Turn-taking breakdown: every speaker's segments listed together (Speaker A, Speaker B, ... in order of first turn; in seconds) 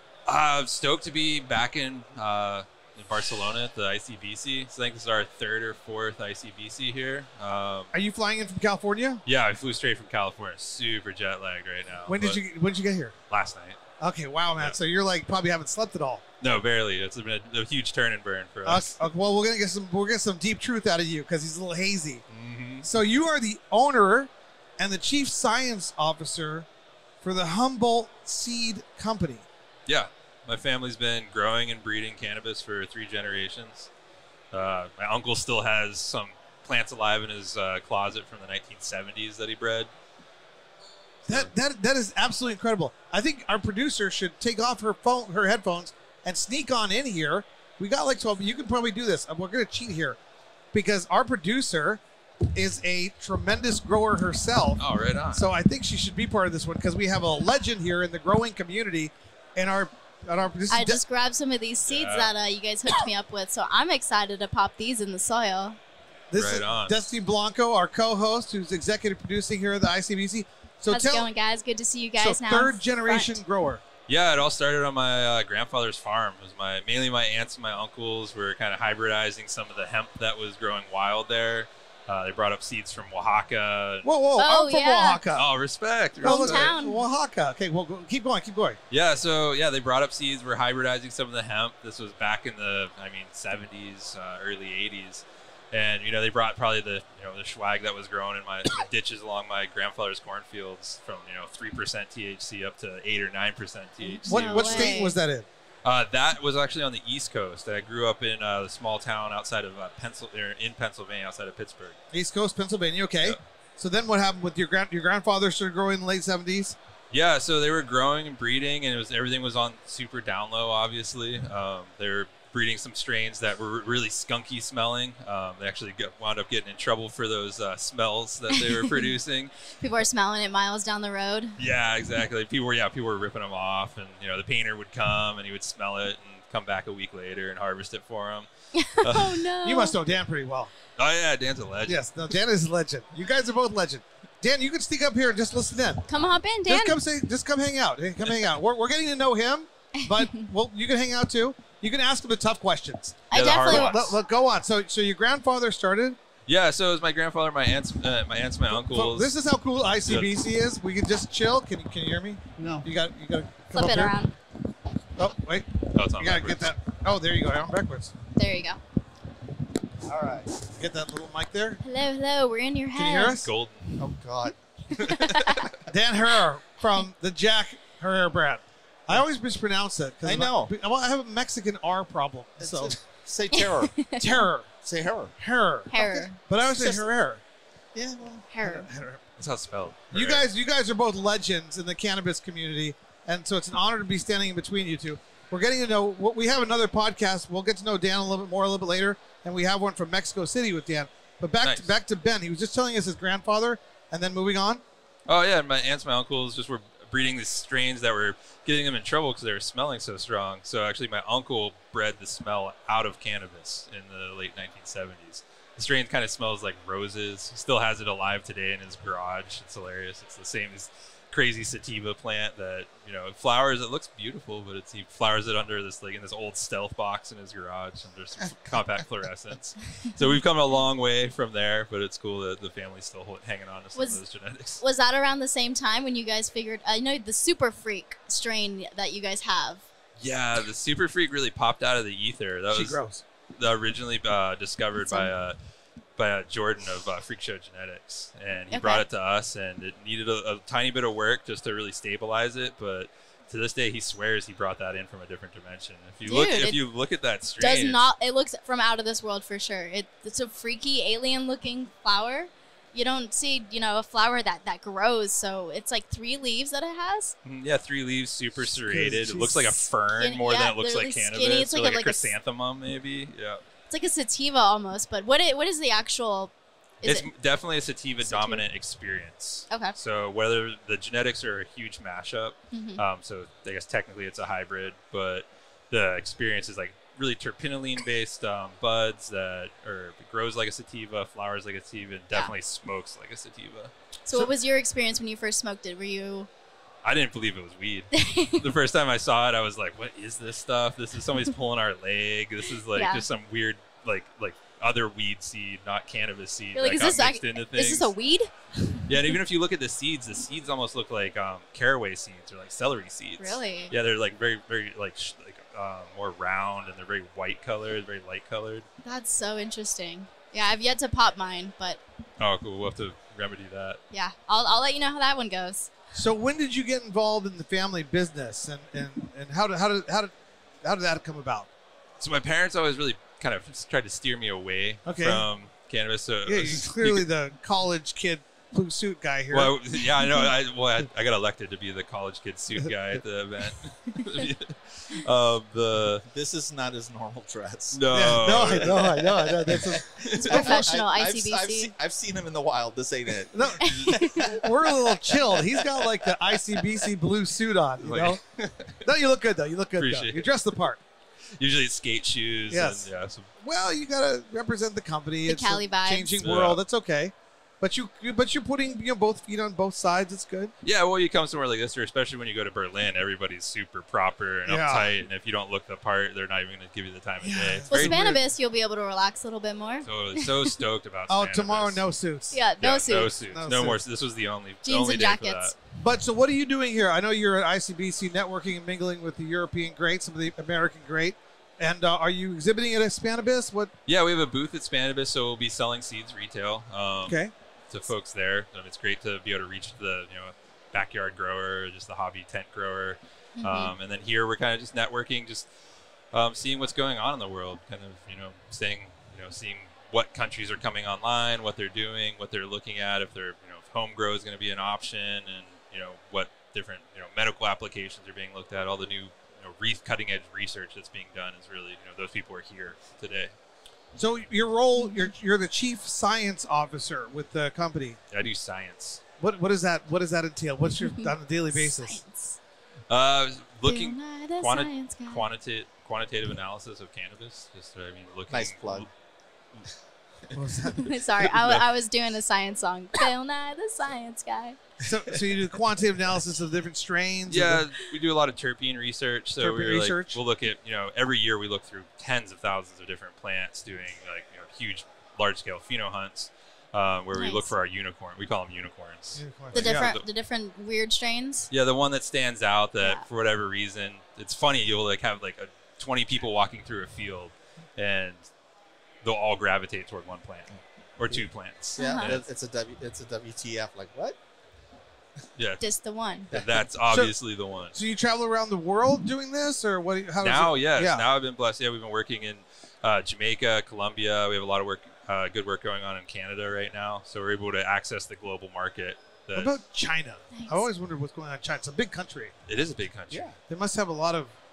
Speaker A: 0.3-7.9, 9.2-12.4, 13.3-13.8, 16.4-18.9, 22.3-22.9, 29.9-33.9, 34.5-39.9, 41.2-41.5, 54.8-55.5, 61.9-62.3, 66.3-67.0, 74.1-84.1, 85.3-86.8, 88.9-105.0, 105.8-112.0, 117.1-129.5, 131.6-139.5, 141.0-142.0, 153.3-154.1, 156.5-159.3, 160.0-160.3, 165.9-166.7, 173.4-173.9, 174.9-175.7, 189.4-190.4, 205.3-234.8, 240.2-243.0, 243.6-245.6, 246.2-258.1, 267.4-273.6, 277.0-293.9, 297.0-308.1, 309.1-318.9, 322.4-324.0, 332.2-337.2, 339.5-346.2, 347.9-350.6, 358.0-359.1, 360.0-360.5, 361.6-363.5, 366.4-366.8, 370.8-378.4, 380.0-382.0, 382.8-385.7, 394.1-397.4, 397.9-405.7, 406.3-423.5, 428.3-429.2, 433.1-439.1, 441.4-441.8, 447.5-460.2, 461.7-468.5, 469.2-472.4, 475.6-475.9, 476.5-477.9, 480.4-489.7, 492.6-493.5
Speaker B: 7.9-9.2, 12.1-13.1, 14.0-16.2, 18.6-22.2, 22.8-26.7, 27.2-29.4, 41.3-50.2, 50.7-61.0, 66.3-71.3, 72.2-73.8, 84.0-85.5, 86.2-88.8, 104.3-105.5, 112.1-116.8, 139.6-140.7, 141.8-146.1, 146.7-156.2, 158.7-164.2, 165.2-168.1, 170.7-171.8, 172.9-173.5, 175.8-182.9, 184.2-184.7, 185.4-187.4, 188.6-189.2, 190.1-204.8, 242.7-243.2, 268.6-269.8, 326.1-331.7, 335.0-335.4, 336.4-339.7, 348.1-350.8, 353.5-358.4, 359.0-361.0, 362.7-363.1, 363.6-370.7, 374.7-375.1, 377.4-378.4, 381.3-382.6, 383.5-384.0, 386.0-393.9, 397.2-397.5, 424.1-428.2, 429.4-432.2, 440.5-441.1, 445.0-447.9, 449.6-450.4, 459.3-460.1, 477.9-481.2, 489.5-492.5, 493.7-494.5
Speaker C: 60.7-65.8, 70.9-73.4, 84.3-85.2, 86.2-87.0, 104.0-105.2, 128.5-129.1, 129.8-131.6, 138.7-140.0, 146.1-147.0, 150.0-150.4, 153.3-154.1, 163.7-164.3, 168.3-168.8, 171.8-173.5, 174.9-175.7, 183.5-184.4, 185.9-186.3, 188.5-188.9, 233.9-234.2, 234.8-239.8, 245.1-245.3, 248.7-249.0, 256.2-256.8, 257.6-267.3, 270.2-272.3, 273.9-277.3, 278.2-278.6, 279.7-279.9, 282.7-283.0, 294.3-296.5, 298.1-298.7, 302.9-303.2, 306.7-309.3, 313.4-313.9, 319.0-322.0, 324.1-325.9, 350.3-351.9, 353.8-354.5, 365.4-366.4, 377.9-380.7, 382.5-383.3, 384.8-385.7, 403.6-403.9, 425.0-425.2, 431.0-432.6, 433.9-435.4, 440.9-444.8, 457.3-457.7, 459.7-461.7, 472.0-472.3, 475.8-476.5, 490.5-490.9
Speaker D: 170.0-170.5, 174.0-174.6, 180.2-180.7, 182.6-184.1, 184.8-185.3, 186.0-187.1, 187.9-188.9, 346.3-356.9, 438.5-439.1, 445.3-445.5, 472.0-474.4, 476.5-476.8, 493.3-493.6